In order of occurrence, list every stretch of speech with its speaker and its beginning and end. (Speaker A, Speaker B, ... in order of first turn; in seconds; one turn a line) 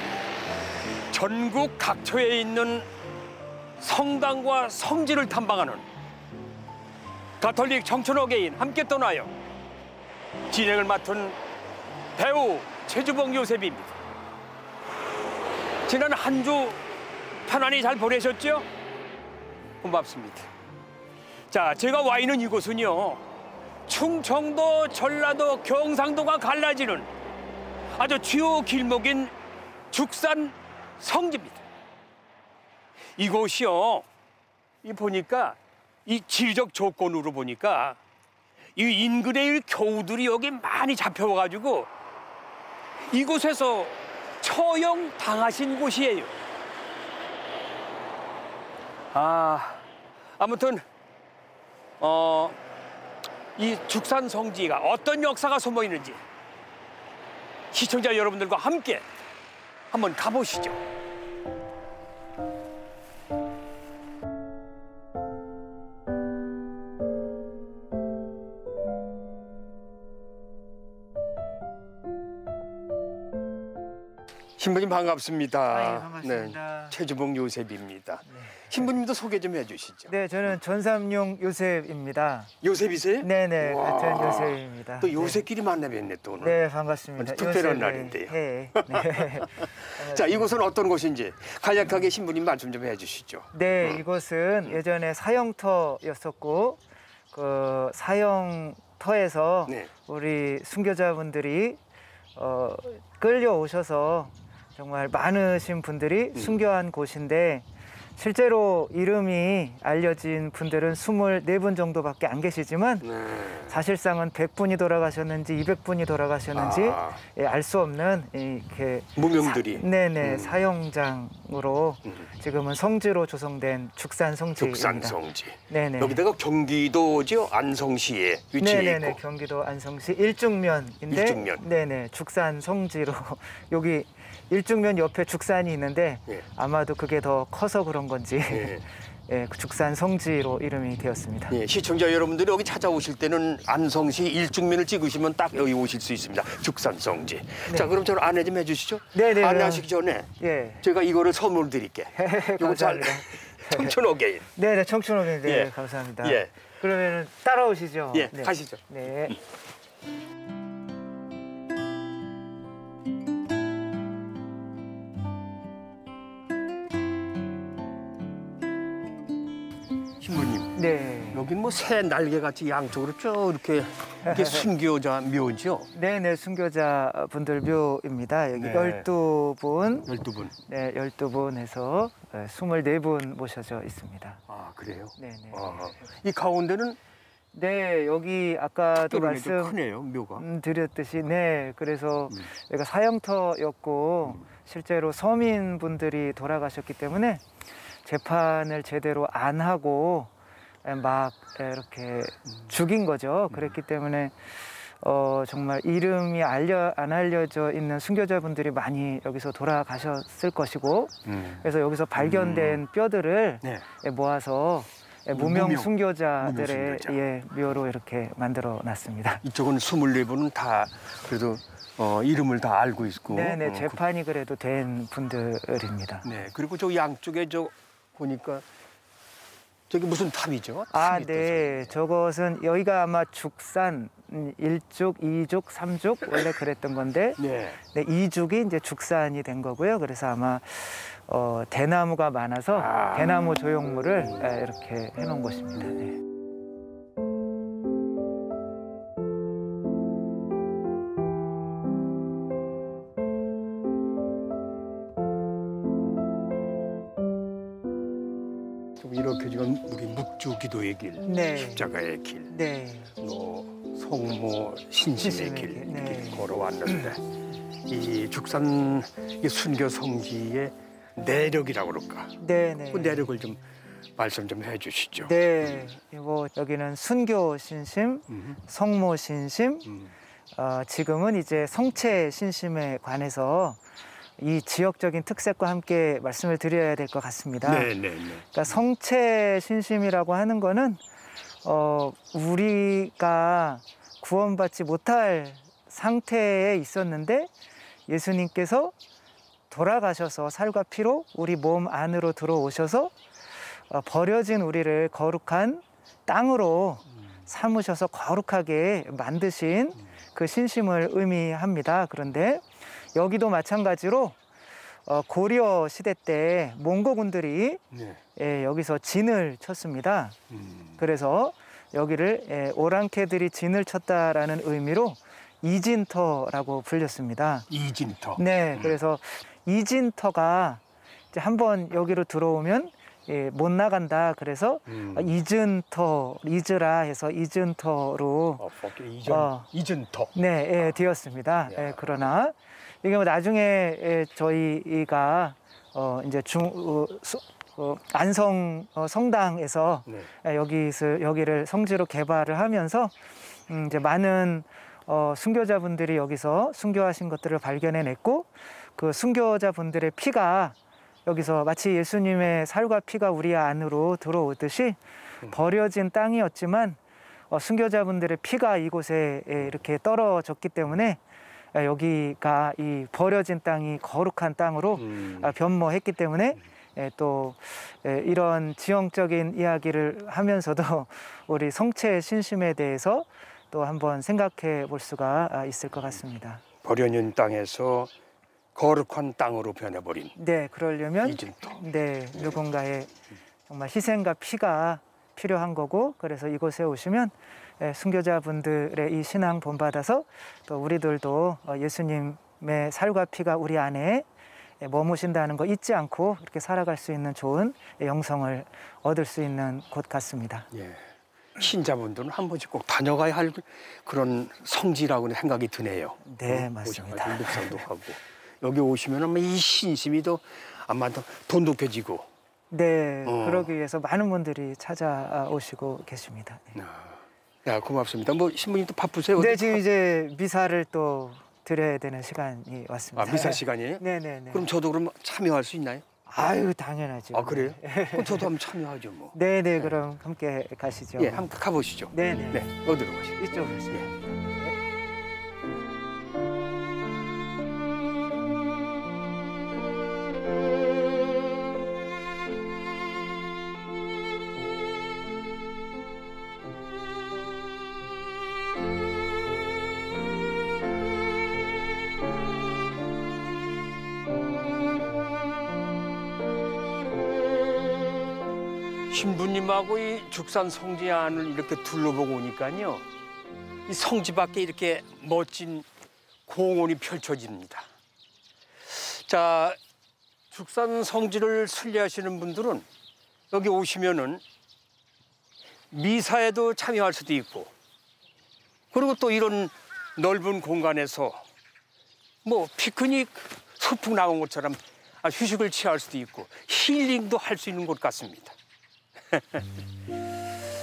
Speaker A: 1.1-2.9
Speaker A: 3.8-5.9
Speaker A: 7.4-9.3
Speaker A: 10.5-11.4
Speaker A: 12.2-14.0
Speaker A: 15.8-16.8
Speaker A: 17.4-18.7
Speaker A: 19.8-20.5
Speaker A: 21.5-23.2
Speaker A: 23.9-27.1
Speaker A: 27.9-29.3
Speaker A: 29.9-31.6
Speaker A: 33.2-34.0
Speaker A: 34.8-38.0
Speaker A: 38.8-41.9
Speaker A: 43.0-46.4
Speaker A: 49.1-49.8
Speaker A: 50.4-50.8
Speaker A: 52.0-52.6
Speaker A: 53.5-56.2
Speaker A: 57.7-59.0
Speaker A: 59.9-60.8
Speaker A: 74.6-80.1
Speaker B: 75.7-77.0
Speaker B: 78.3-78.9
Speaker B: 80.1-82.5
Speaker A: 82.6-86.6
Speaker B: 83.2-85.4
Speaker B: 86.4-90.5
Speaker A: 87.2-94.0
Speaker B: 93.5-96.8
Speaker B: 97.3-101.8
Speaker B: 102.4-125.2
Speaker A: 113.0-113.7
Speaker A: 116.5-117.2
Speaker A: 119.2-120.6
Speaker A: 124.6-129.2
Speaker B: 125.7-126.2
Speaker B: 128.6-141.6
Speaker A: 131.1-131.7
Speaker A: 138.5-138.8
Speaker A: 141.5-150.3
Speaker B: 149.1-150.8
Speaker A: 150.8-154.5
Speaker B: 152.2-154.0
Speaker B: 154.6-159.4
Speaker A: 155.4-156.5
Speaker A: 158.1-158.8
Speaker A: 170.2-170.8
Speaker B: 170.8-171.4
Speaker A: 171.3-175.9
Speaker B: 174.2-174.7
Speaker B: 175.9-180.1
Speaker A: 178.5-179.1
Speaker A: 180.1-180.5
Speaker B: 180.6-184.4
Speaker A: 184.5-187.0
Speaker B: 185.2-186.0
Speaker B: 187.5-189.8
Speaker A: 189.0-190.4
Speaker B: 190.4-197.4
Speaker B: 198.0-200.3
Speaker B: 200.8-204.4
Speaker B: 205.0-219.4
Speaker A: 211.3-211.6
Speaker A: 212.2-212.8
Speaker A: 215.3-217.2
Speaker A: 219.4-224.0
Speaker B: 223.3-226.4
Speaker A: 226.2-228.7
Speaker A: 229.9-231.9
Speaker B: 230.9-246.2
Speaker A: 237.4-237.8
Speaker A: 242.8-243.6
Speaker A: 259.0-262.6
Speaker B: 261.2-261.9
Speaker B: 262.5-263.1
Speaker A: 263.2-267.2
Speaker B: 265.2-267.1
Speaker A: 267.8-272.4
Speaker B: 272.4-273.3
Speaker A: 272.9-273.6
Speaker A: 274.2-275.4
Speaker B: 275.2-279.9
Speaker B: 280.5-283.8
Speaker B: 284.4-287.9
Speaker A: 287.6-288.8
Speaker B: 288.5-291.0
Speaker B: 291.6-297.5
Speaker B: 298.1-298.9
Speaker B: 299.7-303.1
Speaker B: 303.9-314.4
Speaker B: 315.1-317.8
Speaker A: 317.9-318.2
Speaker B: 318.4-320.4
Speaker A: 320.5-321.0
Speaker B: 321.0-327.7
Speaker A: 327.7-328.9
Speaker B: 328.4-338.7
Speaker A: 334.9-335.3
Speaker A: 338.6-340.3
Speaker B: 339.2-339.7
Speaker B: 340.3-353.1
Speaker A: 341.7-342.0
Speaker B: 353.7-367.0
Speaker B: 367.5-371.2
Speaker B: 371.7-386.6
Speaker A: 375.0-375.5
Speaker A: 386.8-388.1
Speaker A: 388.8-390.3
Speaker B: 390.4-393.1
Speaker A: 391.2-391.8
Speaker B: 393.7-404.3
Speaker B: 404.8-410.7
Speaker A: 410.7-411.0
Speaker A: 411.6-422.3
Speaker B: 416.2-417.8
Speaker B: 422.7-426.8
Speaker A: 423.2-423.7
Speaker A: 426.8-429.8
Speaker B: 429.4-434.7
Speaker A: 433.1-436.0
Speaker B: 436.3-438.5
Speaker A: 437.3-439.9
Speaker B: 439.3-441.4
Speaker A: 441.2-443.4
Speaker B: 442.1-442.7
Speaker B: 443.4-444.8
Speaker A: 469.1-473.1
Speaker A: 473.9-475.9
Speaker A: 476.4-477.9
Speaker A: 478.9-479.8
Speaker A: 480.5-482.9
Speaker A: 483.5-484.4
Speaker A: 485.9-487.7
Speaker A: 488.9-491.4
Speaker A: 492.4-498.6
Speaker A: 499.3-499.6